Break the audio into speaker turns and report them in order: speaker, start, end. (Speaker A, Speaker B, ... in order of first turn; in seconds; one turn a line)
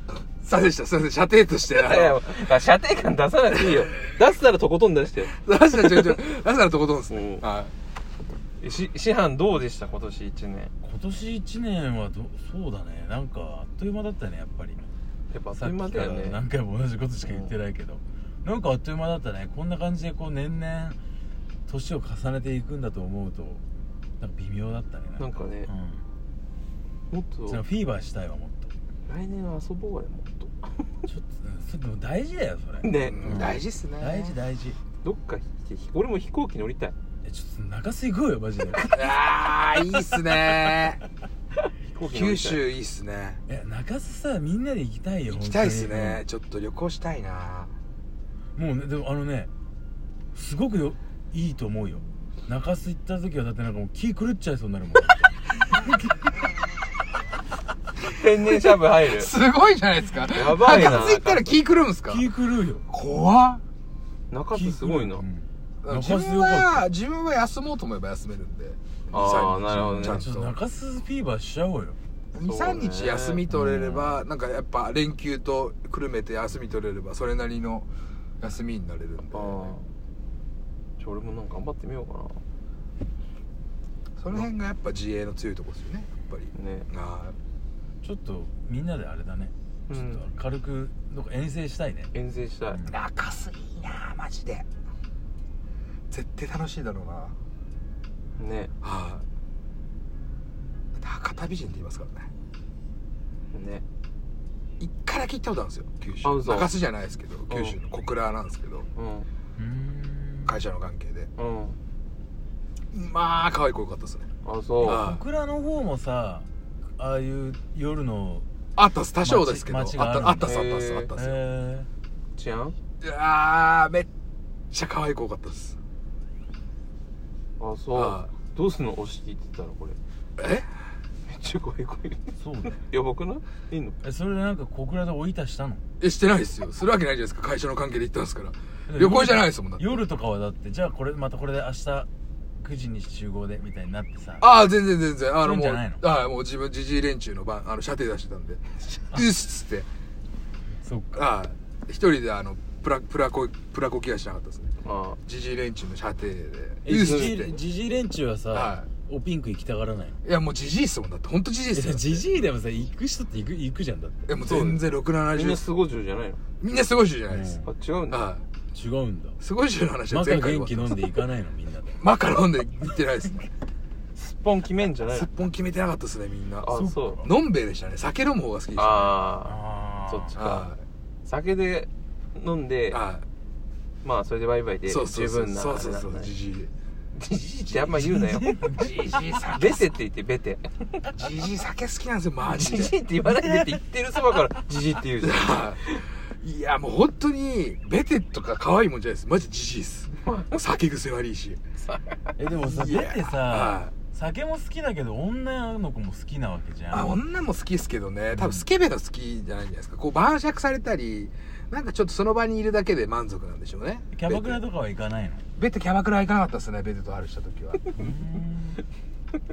Speaker A: 0.4-2.4
Speaker B: 1.7-6.2
Speaker A: 5.3-7.7
Speaker B: 7.1-7.4
Speaker B: 8.6-10.7
Speaker C: 10.8-14.9
Speaker B: 15.3-16.4
Speaker C: 15.5-21.0
Speaker C: 21.7-23.6
Speaker C: 24.2-26.0
Speaker B: 25.2-25.7
Speaker B: 27.1-27.6
Speaker C: 27.5-28.7
Speaker B: 29.1-30.9
Speaker C: 31.1-34.8
Speaker B: 32.8-33.4
Speaker A: 33.1-34.4
Speaker B: 35.0-36.9
Speaker C: 37.2-38.9
Speaker B: 38.7-39.0
Speaker A: 38.9-41.0
Speaker B: 41.9-42.6
Speaker A: 42.0-43.4
Speaker C: 43.5-46.2
Speaker A: 45.3-47.7
Speaker C: 48.5-49.5
Speaker C: 50.3-55.4
Speaker B: 58.0-59.3
Speaker A: 58.5-62.2
Speaker B: 60.3-61.6
Speaker C: 60.6-61.1
Speaker C: 62.1-62.9
Speaker A: 62.9-63.6
Speaker B: 64.3-65.2
Speaker C: 64.5-66.9
Speaker A: 65.8-70.5
Speaker B: 69.1-70.3
Speaker C: 69.7-72.0
Speaker A: 72.3-77.9
Speaker B: 72.4-73.4
Speaker C: 73.5-74.2
Speaker A: 78.4-79.8
Speaker B: 79.3-79.8
Speaker B: 81.0-82.4
Speaker A: 84.2-87.3
Speaker B: 86.5-86.9
Speaker C: 88.0-92.1
Speaker B: 89.9-90.2
Speaker B: 92.1-92.8
Speaker C: 92.7-93.0
Speaker A: 92.8-94.6
Speaker A: 96.1-97.3
Speaker B: 98.4-98.7
Speaker A: 98.8-99.2
Speaker A: 101.0-102.3
Speaker B: 103.5-103.8
Speaker A: 104.8-108.9
Speaker B: 106.2-106.7
Speaker B: 107.5-107.8
Speaker B: 109.0-109.3
Speaker C: 109.6-110.6
Speaker A: 110.4-111.3
Speaker B: 111.4-111.8
Speaker A: 112.9-114.3
Speaker B: 114.4-115.0
Speaker C: 114.8-118.5
Speaker A: 114.8-115.2
Speaker A: 118.8-121.4
Speaker C: 119.2-120.6
Speaker B: 120.4-121.1
Speaker C: 121.1-121.9
Speaker B: 122.3-122.7
Speaker A: 123.0-124.1
Speaker A: 124.7-125.8
Speaker B: 127.6-130.0
Speaker A: 127.9-128.3
Speaker A: 130.4-130.7
Speaker B: 131.3-134.0
Speaker C: 132.4-132.8
Speaker C: 134.0-135.8
Speaker A: 136.0-140.0
Speaker C: 138.9-142.1
Speaker C: 142.6-144.6
Speaker A: 144.4-149.9
Speaker C: 145.4-146.0
Speaker C: 150.8-151.3
Speaker A: 151.1-154.7
Speaker B: 154.8-155.2
Speaker A: 155.2-157.6
Speaker C: 156.8-160.2
Speaker B: 156.9-157.3
Speaker A: 158.5-158.9
Speaker A: 160.2-162.3
Speaker C: 161.7-164.5
Speaker A: 164.3-165.7
Speaker B: 164.4-166.4
Speaker A: 166.6-168.4
Speaker C: 167.3-167.7
Speaker B: 167.6-168.2
Speaker C: 168.7-169.4
Speaker A: 169.4-171.1
Speaker C: 170.1-172.0
Speaker A: 172.0-173.5
Speaker B: 174.1-175.3
Speaker A: 175.1-179.2
Speaker B: 176.6-177.2
Speaker C: 176.7-177.3
Speaker B: 178.7-180.7
Speaker C: 179.4-180.3
Speaker A: 180.3-180.8
Speaker B: 181.2-183.0
Speaker A: 182.9-183.2
Speaker B: 184.0-186.3
Speaker A: 184.8-186.7
Speaker B: 187.1-188.6
Speaker C: 187.9-189.4
Speaker A: 188.7-189.9
Speaker B: 189.5-190.8
Speaker A: 191.1-192.9
Speaker B: 192.4-196.0
Speaker C: 193.3-193.7
Speaker A: 195.2-195.8
Speaker A: 196.4-201.6
Speaker B: 200.1-200.5
Speaker C: 202.4-207.2
Speaker A: 202.5-203.9
Speaker A: 206.9-214.6
Speaker C: 208.3-208.7
Speaker C: 214.1-215.4
Speaker A: 215.6-217.9
Speaker C: 217.9-218.8